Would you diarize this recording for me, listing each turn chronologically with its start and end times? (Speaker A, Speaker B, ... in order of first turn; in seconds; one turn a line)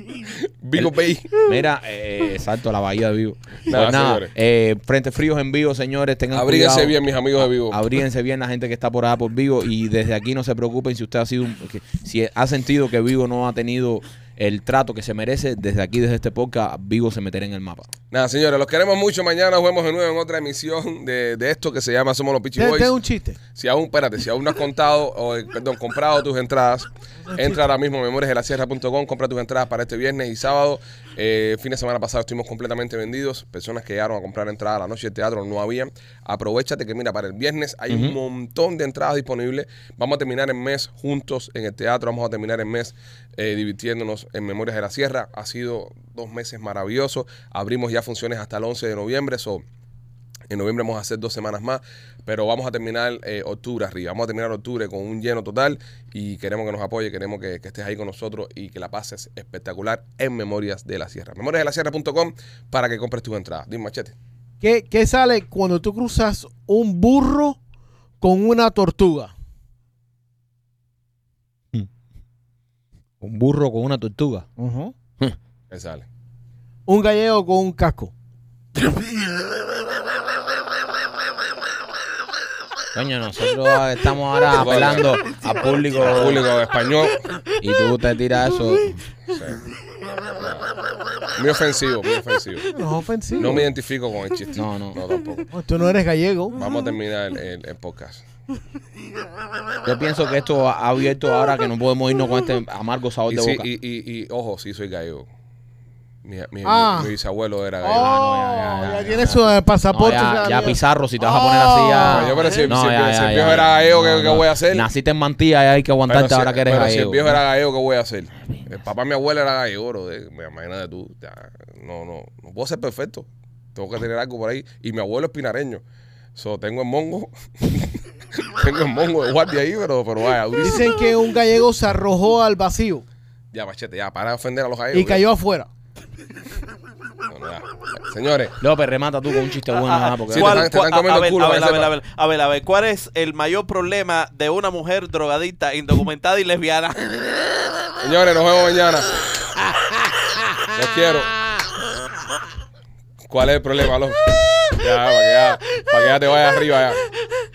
Speaker A: 0.2-1.3
Speaker B: 0.8-17.9
Speaker A: 3.7-4.3
Speaker A: 6.3-7.8
Speaker A: 18.1-22.9
Speaker C: 22.6-23.4
Speaker A: 23.6-49.6
Speaker C: 27.3-27.6
Speaker B: 37.9-38.1
Speaker A: 50.5-64.2
Speaker C: 64.6-67.6
Speaker C: 68.2-69.3
Speaker B: 73.2-74.5
Speaker C: 74.6-74.9
Speaker A: 75.7-76.1
Speaker C: 76.9-78.1
Speaker B: 82.9-86.5
Speaker A: 84.5-85.2
Speaker A: 86.0-87.3
Speaker B: 87.6-89.0
Speaker A: 89.3-89.6
Speaker A: 90.4-90.7
Speaker A: 91.3-92.7
Speaker C: 92.7-93.6
Speaker A: 93.4-95.5
Speaker B: 94.5-95.0
Speaker C: 95.5-96.6
Speaker A: 96.5-98.2
Speaker B: 99.8-103.7
Speaker A: 103.3-105.3
Speaker A: 106.2-108.1
Speaker C: 106.7-107.1
Speaker C: 107.8-112.3
Speaker B: 108.0-117.4
Speaker A: 112.1-114.9
Speaker D: 112.4-112.7
Speaker A: 116.1-125.8
Speaker A: 126.4-131.1
Speaker C: 130.6-133.1
Speaker A: 133.5-135.2
Speaker C: 134.9-135.7
Speaker A: 137.3-138.6
Speaker B: 138.6-140.7
Speaker D: 139.7-147.3
Speaker A: 140.3-141.9
Speaker A: 148.0-149.3
Speaker A: 150.7-151.3
Speaker A: 153.3-157.0